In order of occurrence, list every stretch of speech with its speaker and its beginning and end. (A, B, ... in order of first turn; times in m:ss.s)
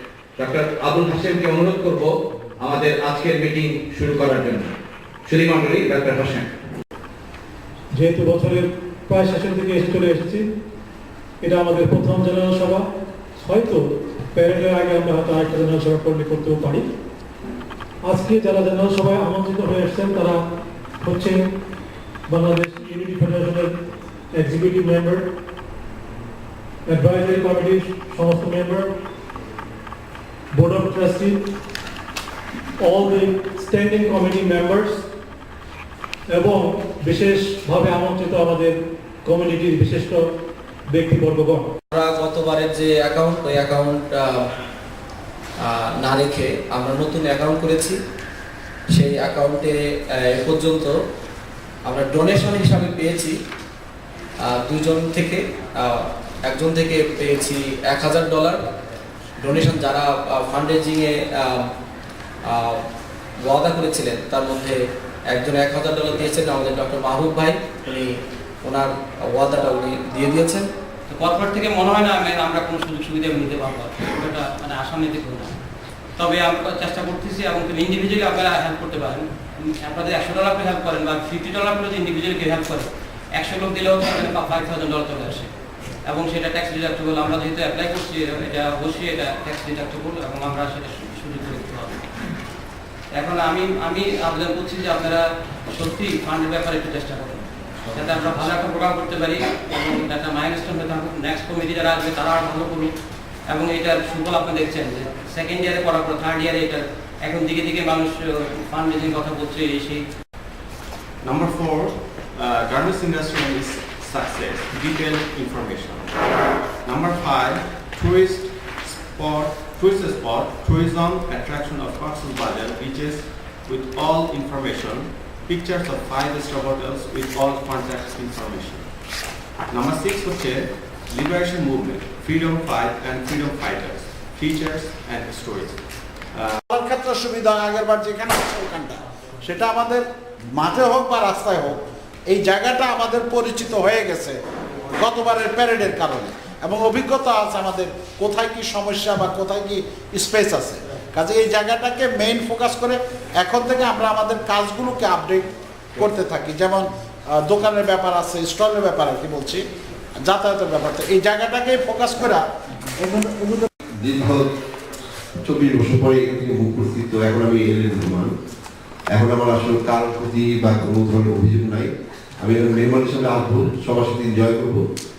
0:00.4-0:02.1 A
0:02.6-0:04.7 A
0:05.3-0:06.5 A
0:07.9-0:10.5 B
0:11.4-0:16.9 B
0:18.0-0:20.4 B
0:21.0-0:21.5 B
0:22.3-0:23.8 B
0:24.3-0:25.3 B
0:26.8-0:28.9 B
0:30.5-0:31.5 B
0:32.8-0:35.1 B
0:36.3-0:40.3 B
0:40.9-0:41.7 B
0:41.9-0:44.4 C
0:45.6-0:48.0 C
0:48.9-0:50.9 C
0:51.9-0:53.3 C
0:54.4-0:58.6 C
0:59.4-1:01.6 C
1:02.5-1:02.8 C
1:03.4-1:04.8 C
1:05.3-1:08.1 C
1:08.6-1:10.7 C
1:11.1-1:15.6 D
1:16.2-1:25.5 D
1:26.0-1:32.0 D
1:33.1-1:42.9 D
1:43.5-1:50.0 D
1:51.2-1:56.2 E
1:56.8-2:08.9 E
2:09.7-2:15.8 E
2:16.7-2:20.0 F
2:20.5-2:24.4 F
2:25.0-2:39.6 F
2:40.2-2:42.4 F
2:43.0-2:43.7 F
2:44.0-2:44.5 G
2:45.4-2:48.3 G
2:49.1-2:54.8 G